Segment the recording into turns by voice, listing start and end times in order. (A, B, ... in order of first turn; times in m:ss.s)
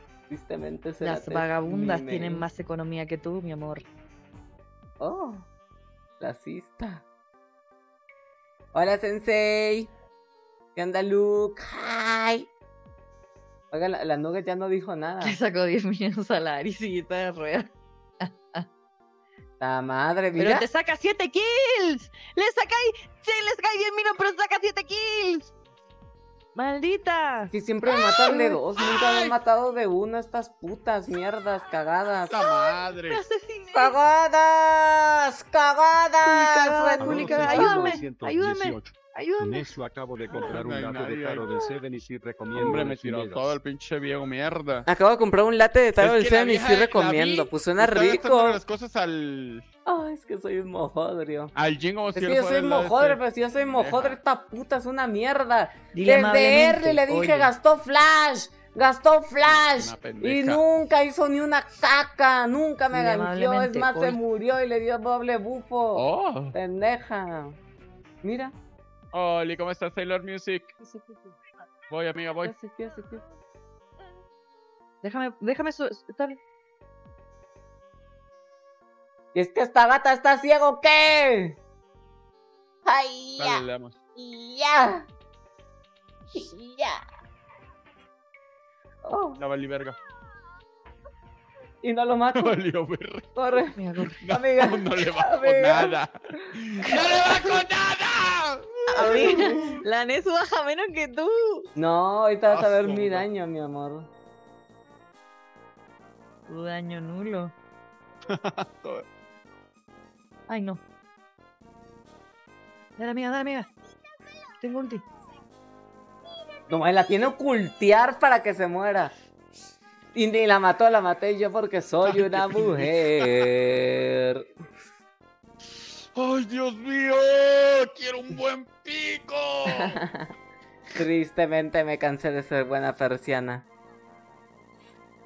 0:00.3-0:02.5 A
0:01.0-0:03.8 B
0:05.0-0:05.5 A
0:06.2-0:07.0 A
0:08.7-0:09.9 A
0:10.8-0:12.5 A
0:13.7-0:15.4 A
0:15.2-0:17.7 B
0:18.2-0:18.7 B
0:19.6-0:20.7 A
0:20.4-0:25.5 B
0:26.6-0:27.5 B
0:27.5-0:32.3 A
0:28.2-0:28.6 B
0:28.8-0:29.3 C
0:32.3-0:33.2 C
0:32.3-0:34.0 B
0:33.7-0:38.0 A
0:36.2-0:39.7 B
0:37.0-0:43.6 D
0:40.3-0:41.4 C
0:42.6-0:44.9 C
0:44.9-0:48.6 A
0:46.0-0:49.6 C
0:49.9-0:51.5 A
0:51.6-0:54.2 C
0:52.2-1:07.6 A
0:55.9-0:57.5 B
0:59.5-1:00.6 C
1:02.9-1:04.2 B
1:06.0-1:06.6 C
1:08.2-1:08.5 A
1:09.1-1:10.7 C
1:10.8-1:11.2 A
1:11.9-1:12.5 C
1:12.4-1:13.2 A
1:15.0-1:16.4 B
1:19.3-1:21.6 A
1:22.9-1:23.6 A
1:23.4-1:24.0 C
1:24.2-1:25.1 A
1:26.3-1:27.0 A
1:29.0-1:29.4 A
1:29.4-1:30.0 C
1:31.8-1:32.6 A
1:32.4-1:33.3 C
1:33.4-1:33.8 A
1:33.8-1:34.2 B
1:34.2-1:39.8 C
1:34.3-1:36.5 A
1:36.9-1:37.5 B
1:38.9-1:41.7 B
1:39.0-1:39.6 A
1:41.8-1:44.1 A
1:42.5-1:43.3 C
1:46.5-1:47.5 B
1:48.3-1:49.0 C
1:50.5-1:50.8 B
1:53.0-1:53.7 B
1:54.6-1:55.1 B
1:56.7-1:59.1 A
2:00.1-2:04.5 A
2:02.0-2:03.3 C
2:06.2-2:10.0 C
2:09.7-2:10.3 A
2:11.0-2:13.7 A